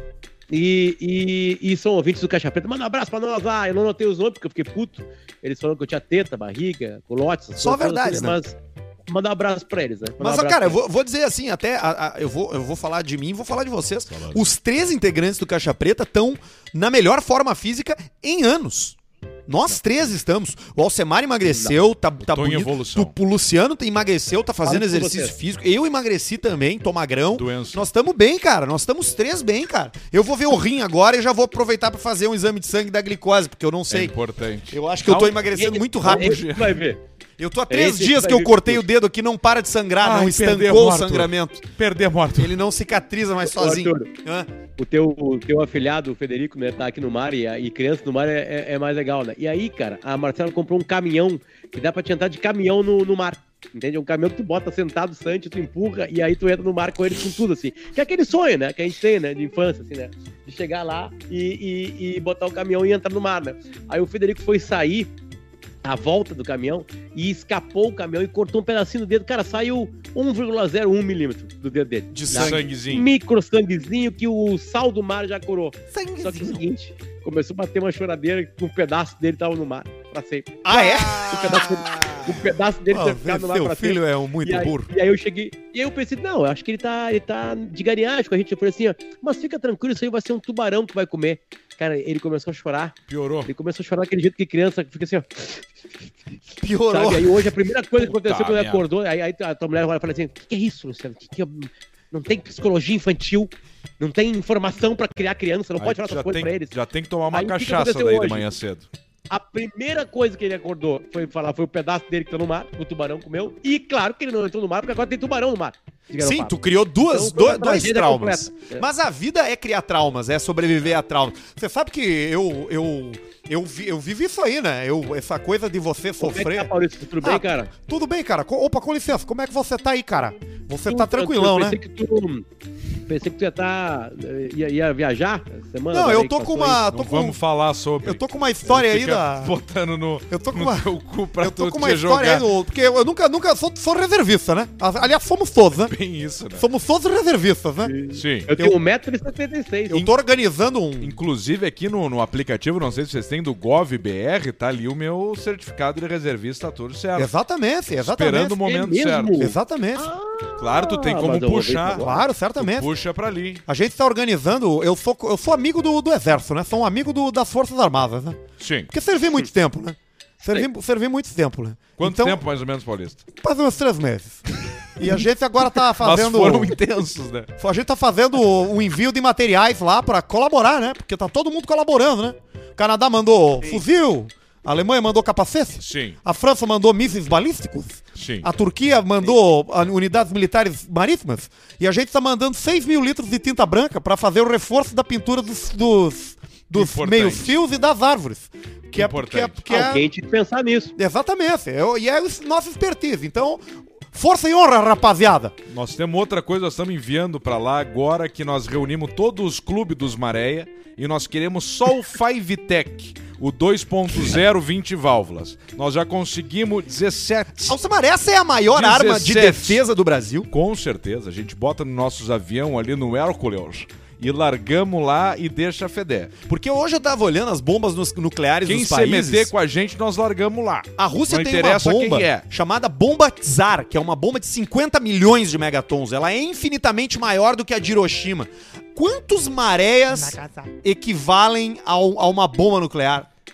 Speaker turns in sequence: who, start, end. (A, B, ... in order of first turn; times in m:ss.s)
0:00.5-0:08.6 A
0:07.6-0:08.4 B
0:09.1-0:10.8 A
0:10.2-0:34.1 B
0:14.1-0:14.4 C
0:22.2-0:23.2 C
0:24.6-0:25.4 A
0:27.4-0:27.8 C
0:33.9-0:35.4 C
0:34.7-0:36.4 B
0:35.5-0:37.0 A
0:36.0-0:36.8 C
0:37.4-0:41.7 B
0:37.7-0:38.8 A
0:40.0-0:42.6 C
0:42.4-0:44.5 B
0:43.4-0:44.1 A
0:44.8-1:05.1 A
1:05.8-1:32.9 A
1:12.1-1:12.6 B
1:12.3-1:13.1 C
1:15.9-1:16.6 B
1:20.6-1:22.3 B
1:22.9-1:24.9 B
1:33.1-1:33.5 C
1:33.5-1:35.7 A
1:36.6-1:37.5 B
1:36.9-1:46.7 A
1:38.0-1:38.8 C
1:45.8-1:48.9 C
1:47.3-1:48.5 A
1:49.3-1:56.6 A
1:56.2-2:06.7 B
1:57.1-1:58.9 A
2:06.2-2:07.7 A
2:07.2-2:11.8 B
2:10.9-2:12.4 A
2:13.1-2:16.8 A
2:15.9-2:17.4 B
2:16.9-2:22.5 C
2:18.0-2:19.5 B
2:20.3-2:20.8 B
2:21.4-2:25.9 B
2:25.9-2:26.7 C
2:26.6-2:27.9 B
2:27.8-2:30.1 A
2:28.1-2:28.5 C
2:29.9-2:31.2 B
2:31.0-2:37.3 C
2:37.2-2:38.6 B
2:38.0-2:39.4 C
2:38.6-2:42.2 A
2:39.4-2:40.1 B
2:40.6-2:43.6 C
2:42.0-2:42.9 B
2:43.7-2:48.4 B
2:48.6-2:48.9 C
2:48.9-2:52.4 B
2:52.0-2:53.2 C
2:53.4-2:54.4 B
2:55.0-2:56.8 B
2:55.8-2:57.5 C
2:57.6-3:20.1 B
3:05.8-3:06.2 C
3:08.2-3:08.5 C
3:16.8-3:17.6 C
3:19.0-3:19.7 C
3:19.7-3:20.9 A
3:21.0-3:25.6 B
3:25.7-3:37.8 C
3:37.6-3:40.5 B
3:38.7-3:39.8 C
3:40.5-3:46.3 C
3:46.5-3:49.5 B
3:48.7-3:52.4 C
3:51.0-4:03.3 B